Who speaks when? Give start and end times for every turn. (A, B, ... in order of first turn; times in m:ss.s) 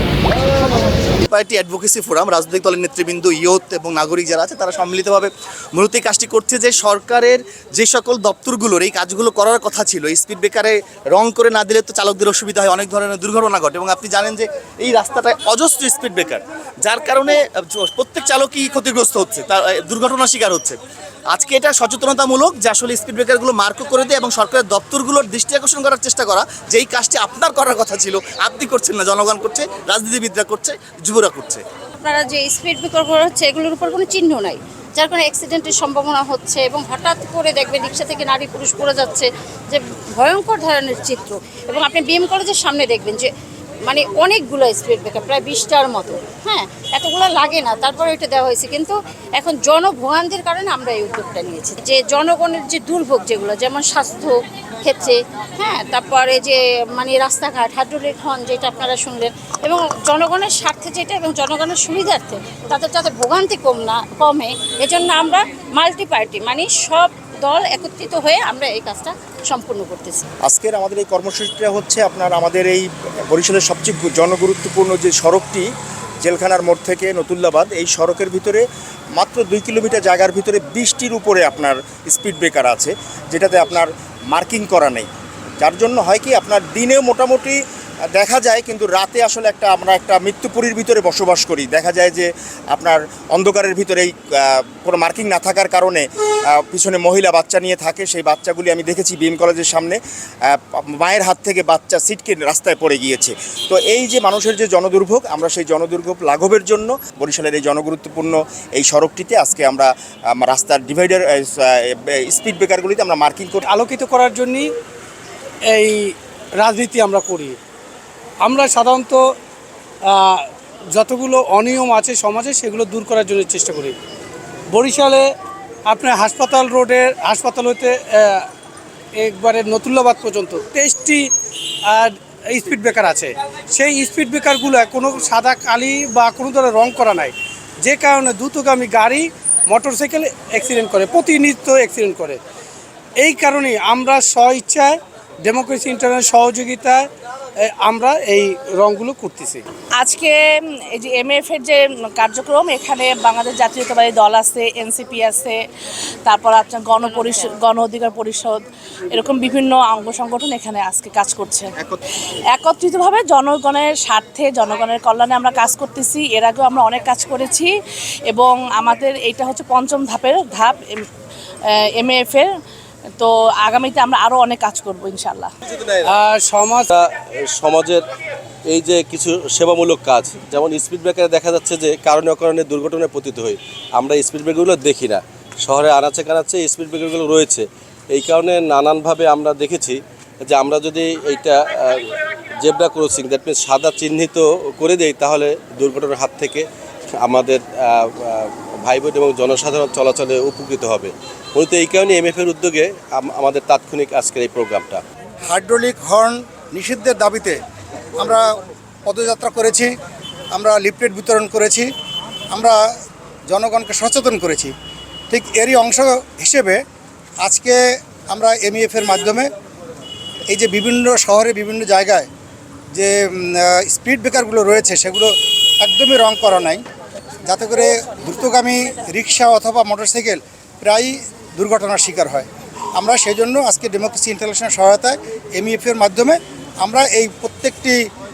0:01.1-0:20.8 A
0:21.3-0:31.6 A
0:32.0-0:43.3 B
0:43.9-1:10.2 B
1:10.4-1:15.7 C
1:16.2-1:18.6 C
1:19.2-1:25.1 C
1:25.6-1:27.6 C
1:28.2-1:36.0 C
1:36.6-1:53.6 C
1:53.6-1:54.7 D
1:55.7-1:57.6 D
1:58.4-1:59.3 D
2:00.0-2:04.0 D
2:04.7-2:05.3 D
2:05.9-2:08.5 D
2:09.2-2:11.3 D
2:11.9-2:22.4 D
2:23.2-2:27.1 D
2:27.6-2:29.6 D
2:30.0-2:30.4 E
2:30.9-2:35.6 E
2:36.2-2:41.7 E
2:37.0-2:37.6 B
2:42.5-2:47.7 E
2:48.3-2:51.0 E
2:51.7-2:52.5 E
2:53.2-2:55.5 E
2:55.7-2:56.1 F
2:56.0-2:56.9 D
2:56.9-2:58.0 F
2:58.7-3:16.6 F
3:17.2-3:25.0 F
3:25.5-3:27.6 G
3:28.2-3:28.5 G
3:29.0-3:29.9 G
3:30.6-3:31.9 G
3:32.5-3:32.8 G
3:33.5-3:34.7 G
3:35.3-3:36.8 G
3:37.4-3:39.5 G
3:40.5-3:42.3 G
3:42.9-3:46.8 G
3:47.4-3:58.0 G